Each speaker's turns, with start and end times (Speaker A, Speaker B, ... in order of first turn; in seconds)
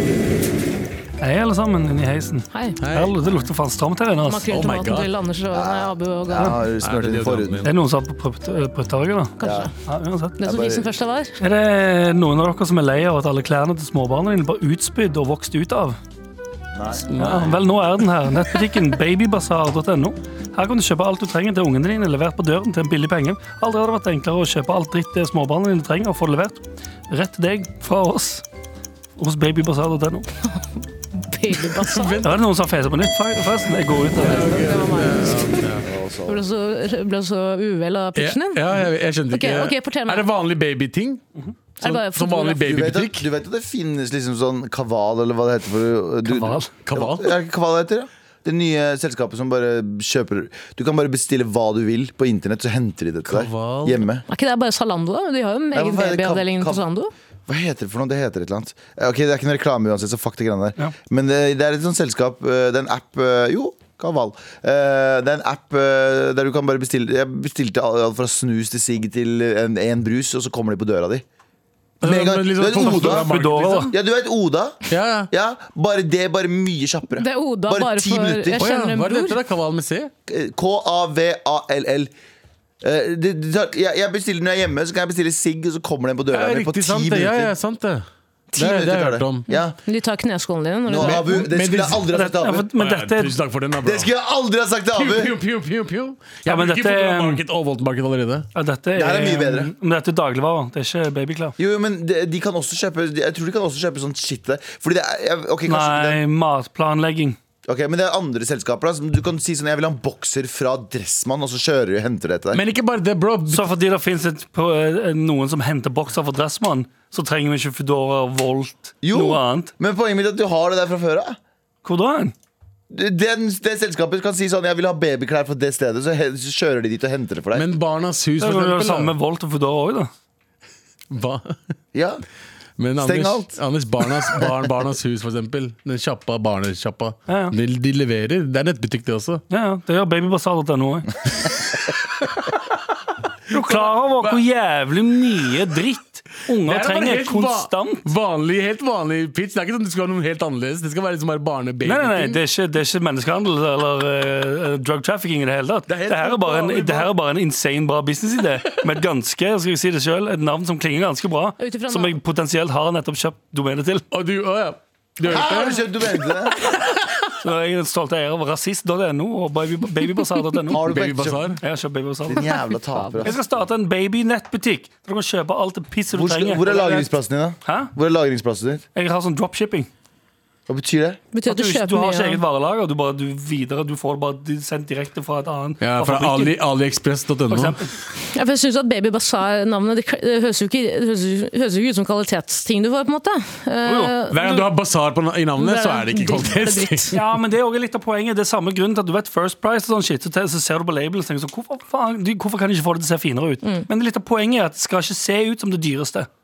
Speaker A: 1.2-4.5, 7.6-10.4, 11.4-16.0, 17.2-28.4, 29.2-30.3, 32.2-34.6, 46.2-46.7, 72.8-73.9, 92.1-93.3, 96.4-97.4, 98.5-101.5, 105.7-107.3, 113.5-119.7, 121.8-122.3, 128.4-130.1, 137.3-137.5, 139.5-141.1, 143.5-148.0, 151.8-164.1, 167.4-170.8, 171.6-172.5, 173.2-177.1, 177.6-177.9, 178.9-179.9, 181.4-186.6, 187.5-187.9, 193.8-194.1, 197.1-206.3
Speaker B: 2.8-3.2, 4.5-5.1, 6.8-7.7, 17.1-17.6, 31.8-32.3, 34.2-35.9, 38.1-41.2, 41.8-43.2, 46.9-47.3, 53.3-54.0, 72.0-73.9, 74.9-75.3, 78.5-80.1, 86.3-88.0, 88.5-89.4, 91.0-92.0, 92.8-94.1, 95.0-98.5, 112.5-113.6, 127.5-129.1, 131.1-131.6, 132.8-139.4, 143.5-144.4, 146.6-152.4, 155.9-157.1, 164.1-165.8, 170.9-171.6, 185.8-187.8, 194.3-197.2
Speaker C: 4.2-6.6, 9.4-9.7, 10.4-11.3, 31.2-32.2, 34.3-35.7, 36.3-38.6, 39.3-40.3, 41.8-42.6, 54.3-57.1, 77.2-79.4, 89.5-91.4, 161.6-162.2, 172.4-173.3, 181.3-182.4, 188.3-194.7, 195.6-197.2
Speaker D: 5.5-7.7, 9.4-9.7, 10.4-10.9, 16.7-17.2, 35.8-36.4, 42.6-54.2, 55.7-56.8, 57.5-71.2, 72.0-73.3, 73.9-78.6, 80.3-82.1, 82.8-87.5, 88.5-89.8, 90.9-92.7, 93.8-95.3, 98.9-99.7, 101.6-106.2, 107.7-112.6, 119.0-121.4, 122.9-127.7, 131.9-132.2, 133.0-133.6, 165.2-166.6, 170.7-171.6, 172.2-173.4, 176.1-178.8, 180.7-181.2